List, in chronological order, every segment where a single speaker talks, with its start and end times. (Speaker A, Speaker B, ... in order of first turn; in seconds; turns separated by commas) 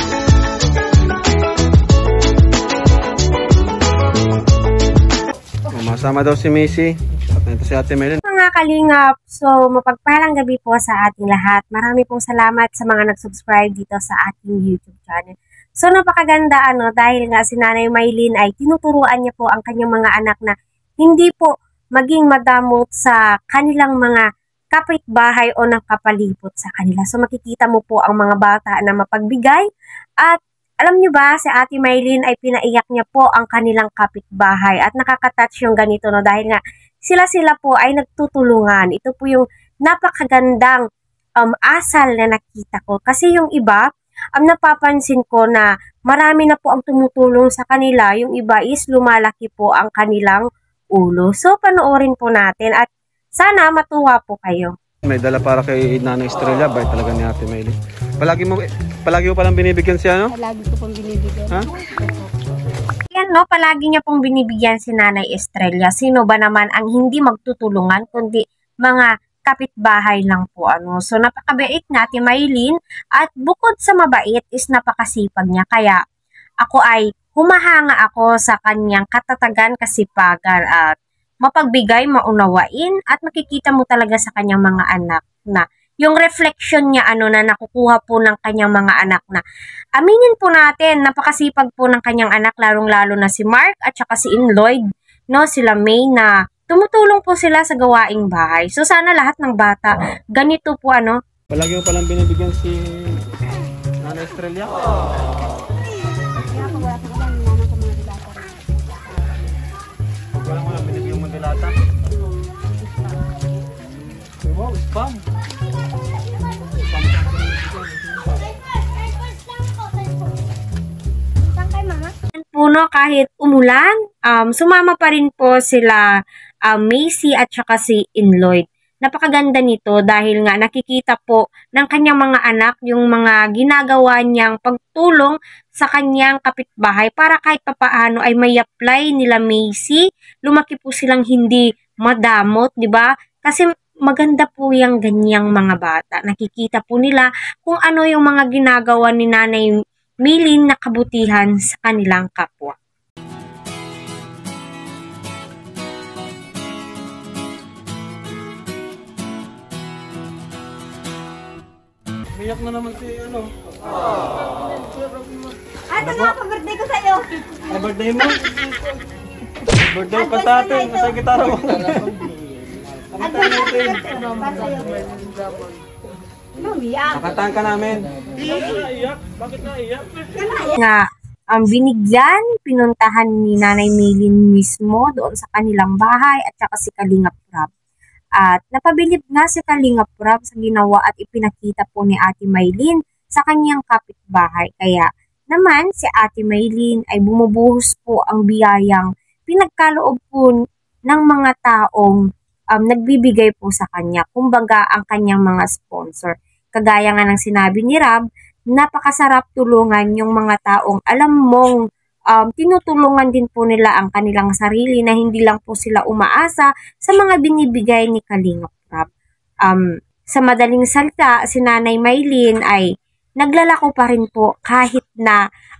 Speaker A: 5.7-8.2, Speaker B: 8.2-24.2, Speaker B: 24.7-29.6, Speaker B: 30.2-40.8, Speaker B: 41.4-43.8, Speaker B: 44.4-54.7, Speaker A: 55.1-60.3, Speaker C: 60.3-62.3, Speaker B: 63.1-76.0, Speaker B: 76.6-80.9, Speaker B: 81.4-89.4, Speaker B: 90.0-101.2, Speaker A: 101.5-103.2, Speaker A: 104.0-105.0, Speaker C: 106.4-108.5, Speaker A: 110.3-111.8, Speaker A: 114.4-115.2, Speaker A: 116.9-118.4, Speaker C: 121.5-122.1, Speaker B: 122.4-126.0, Speaker B: 126.7-149.7, Speaker B: 150.2-152.8, Speaker A: 162.3-163.5, Speaker C: 165.9-167.6, Speaker A: 165.9-166.3, Speaker A: 167.7-168.4, Speaker A: 169.6-172.3, Speaker C: 170.3-171.1, Speaker A: 173.1-174.2, Speaker C: 173.2-175.3, Speaker C: 176.6-177.2, Speaker A: 177.1-179.7, Speaker C: 180.4-180.7, Speaker B: 180.7-187.7, Speaker B: 188.4-200.5, Speaker B: 201.1-202.2, Speaker B: 202.7-208.2, Speaker B: 208.7-211.8, Speaker B: 212.3-219.1, Speaker B: 219.7-222.8, Speaker B: 223.4-225.4